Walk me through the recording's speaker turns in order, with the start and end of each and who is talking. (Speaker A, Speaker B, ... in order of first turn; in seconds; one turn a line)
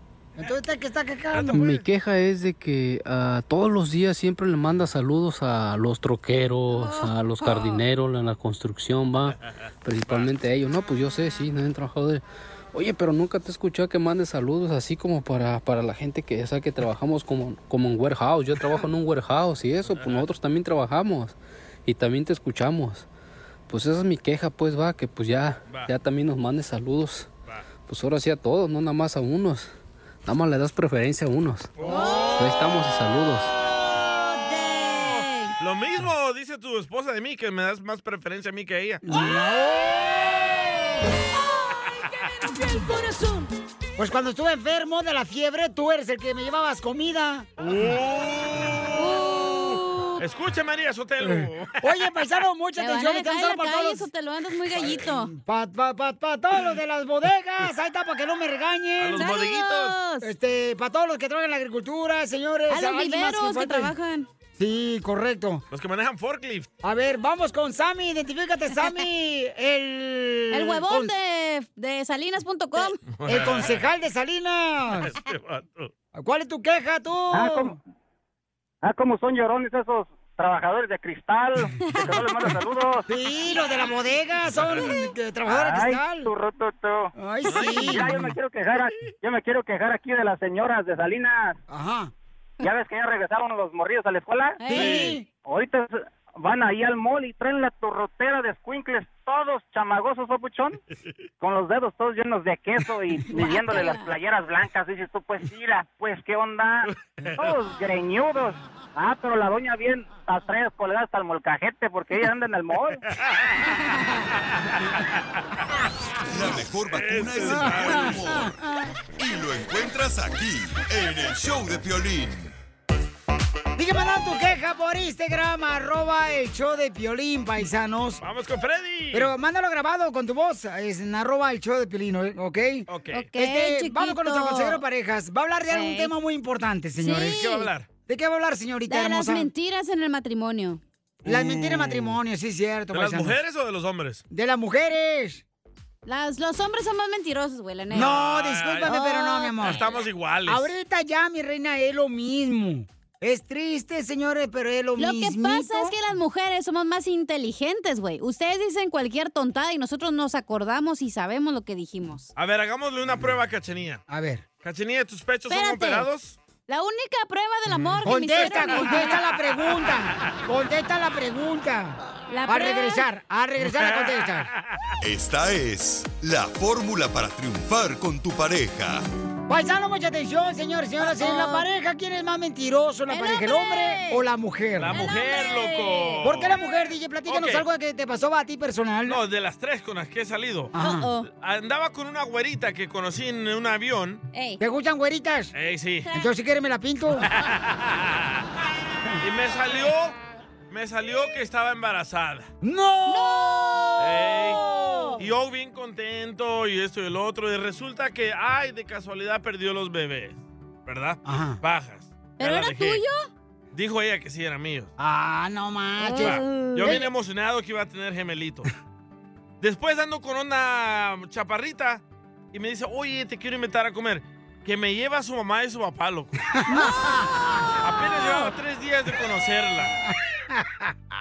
Speaker A: 0.3-1.6
Speaker B: 1.3-1.8
Speaker C: 1.5-23.1
Speaker D: 6.7-7.8
Speaker B: 19.9-20.2
Speaker C: 23.7-27.3
Speaker C: 27.9-29.7
Speaker C: 30.2-31.7
Speaker B: 31.8-32.5
Speaker D: 31.9-32.5
Speaker C: 32.4-33.5
Speaker D: 34.0-35.5
Speaker B: 35.6-39.0
Speaker A: 39.0-40.3
Speaker D: 42.8-43.4
Speaker A: 44.0-47.5
Speaker B: 47.6-51.8
Speaker D: 48.9-50.2
Speaker A: 51.2-54.1
Speaker D: 52.8-55.3
Speaker A: 54.7-59.2
Speaker B: 59.0-59.9
Speaker D: 59.2-60.3
Speaker A: 60.2-63.9
Speaker D: 62.7-64.3
Speaker A: 64.6-65.6
Speaker B: 65.7-66.7
Speaker A: 66.8-71.1
Speaker D: 70.5-73.0
Speaker B: 73.1-73.8
Speaker A: 73.2-75.1
Speaker B: 75.0-75.9
Speaker A: 76.1-77.8
Speaker E: 77.3-77.8
Speaker E: 78.8-83.0
Speaker D: 81.9-82.2
Speaker A: 83.1-86.3
Speaker E: 85.6-87.1
Speaker A: 87.2-88.2
Speaker D: 87.5-88.0
Speaker B: 87.5-87.9
Speaker E: 87.8-91.6
Speaker A: 91.7-92.1
Speaker E: 92.6-94.6
Speaker D: 94.6-95.1
Speaker A: 94.7-95.2
Speaker B: 94.7-95.1
Speaker E: 95.4-100.8
Speaker E: 101.4-113.0
Speaker D: 103.3-104.0
Speaker B: 106.9-107.5
Speaker B: 113.2-113.6
Speaker F: 116.3-118.5
Speaker B: 116.8-118.2
Speaker A: 117.4-118.1
Speaker F: 119.2-122.5
Speaker A: 123.8-128.2
Speaker B: 128.2-129.3
Speaker A: 129.1-139.5
Speaker B: 132.9-133.3
Speaker D: 133.1-134.8
Speaker D: 135.7-136.1
Speaker D: 137.0-137.7
Speaker B: 137.5-137.9
Speaker D: 138.9-140.8
Speaker A: 141.2-143.3
Speaker B: 141.3-142.1
Speaker B: 142.9-144.2
Speaker A: 144.3-145.4
Speaker D: 146.1-148.2
Speaker A: 147.9-149.8
Speaker B: 148.0-148.9
Speaker D: 148.8-149.8
Speaker B: 149.6-150.7
Speaker A: 150.5-155.9
Speaker D: 155.0-162.3
Speaker B: 162.3-164.0
Speaker A: 164.1-164.4
Speaker B: 164.6-166.4
Speaker D: 165.5-166.1
Speaker D: 166.7-169.2
Speaker A: 168.0-174.5
Speaker D: 172.3-173.0
Speaker B: 173.6-174.2
Speaker F: 175.0-179.0
Speaker A: 179.5-185.0
Speaker D: 181.0-181.6
Speaker D: 183.1-184.2
Speaker B: 184.8-186.5
Speaker D: 184.9-186.3
Speaker A: 186.2-189.2
Speaker B: 187.3-187.6
Speaker B: 189.1-190.7
Speaker A: 190.7-191.1
Speaker D: 190.8-191.3
Speaker B: 191.2-194.2
Speaker D: 194.3-194.6
Speaker A: 194.6-195.5
Speaker B: 195.5-196.1
Speaker A: 196.1-197.3
Speaker B: 197.3-198.2
Speaker B: 199.2-200.1
Speaker B: 200.7-202.5
Speaker A: 202.6-203.9
Speaker D: 203.1-205.2
Speaker B: 204.0-204.6
Speaker A: 204.6-205.2
Speaker B: 205.2-213.0
Speaker A: 211.2-211.6
Speaker D: 212.4-213.3
Speaker B: 213.7-214.9
Speaker A: 215.0-217.1
Speaker D: 216.0-217.0
Speaker B: 216.2-218.7
Speaker B: 219.6-222.0
Speaker B: 222.5-226.4
Speaker A: 226.6-227.1
Speaker B: 227.8-230.0
Speaker A: 230.5-230.9